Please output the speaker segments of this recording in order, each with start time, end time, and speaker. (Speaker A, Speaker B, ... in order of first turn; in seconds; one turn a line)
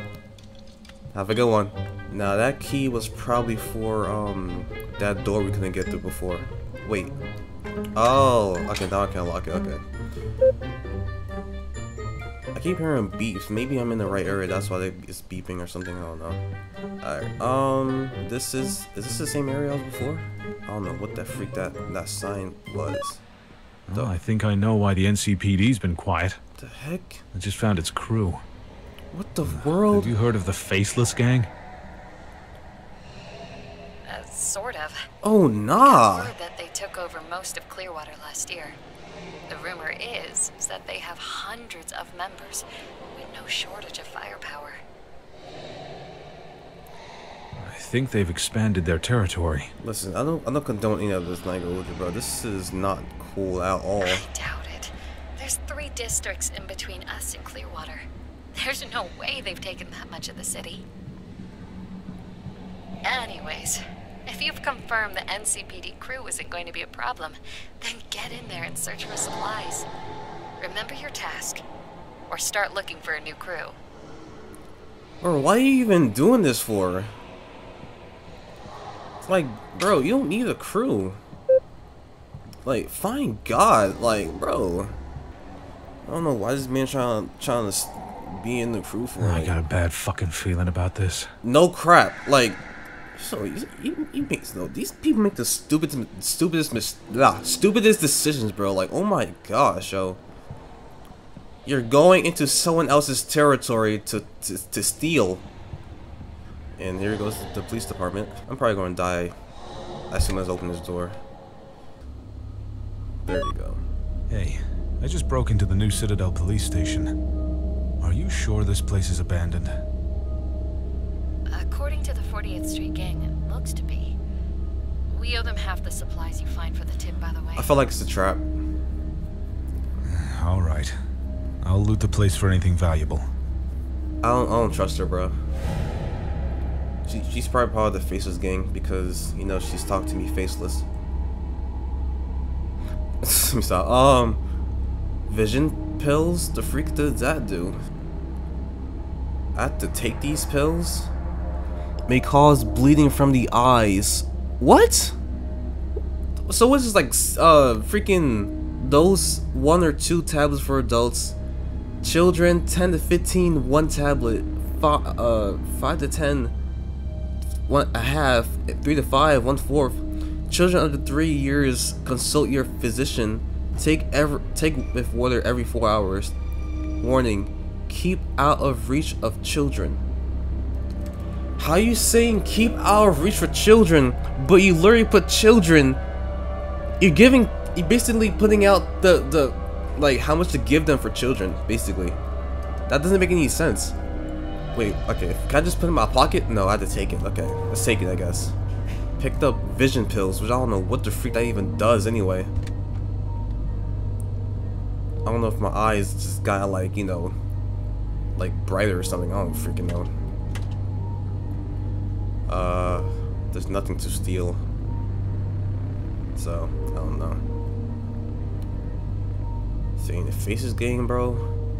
Speaker A: 1.1-7.2
Speaker A: 7.9-9.8
Speaker A: 12.5-16.4
Speaker A: 17.0-23.2
Speaker B: 23.9-26.4
Speaker A: 26.6-27.2
Speaker B: 27.3-28.4
Speaker A: 29.1-30.1
Speaker B: 29.8-31.5
Speaker C: 34.1-35.0
Speaker A: 35.2-36.3
Speaker C: 35.8-38.8
Speaker C: 39.5-44.8
Speaker B: 47.6-49.7
Speaker A: 49.8-54.2
Speaker C: 54.0-60.8
Speaker C: 63.0-69.9
Speaker C: 70.6-71.6
Speaker C: 72.3-73.8
Speaker A: 75.2-77.1
Speaker A: 79.2-81.2
Speaker A: 82.6-85.0
Speaker A: 86.0-89.5
Speaker B: 89.2-91.3
Speaker A: 91.4-92.6
Speaker A: 93.1-100.2
Speaker A: 101.6-105.4
Speaker A: 106.8-109.3
Speaker A: 110.1-111.2
Speaker A: 113.2-113.8
Speaker B: 114.3-117.1
Speaker B: 118.0-119.8
Speaker C: 121.5-124.2
Speaker C: 125.1-127.7
Speaker A: 127.5-128.5
Speaker B: 130.1-130.9
Speaker B: 131.6-133.3
Speaker A: 134.2-135.3
Speaker A: 137.1-140.9
Speaker A: 143.2-144.4
Speaker A: 145.3-147.8
Speaker A: 149.5-151.1
Speaker A: 152.1-155.2
Speaker A: 156.5-161.4
Speaker A: 162.0-166.5
Speaker A: 167.7-176.3
Speaker A: 177.0-180.0
Speaker A: 181.6-186.0
Speaker A: 187.0-192.2
Speaker A: 192.9-193.9
Speaker A: 194.7-198.6
Speaker A: 199.2-202.5
Speaker A: 205.2-207.3
Speaker A: 208.3-210.1
Speaker A: 212.5-214.6
Speaker A: 216.3-217.4
Speaker A: 220.0-221.5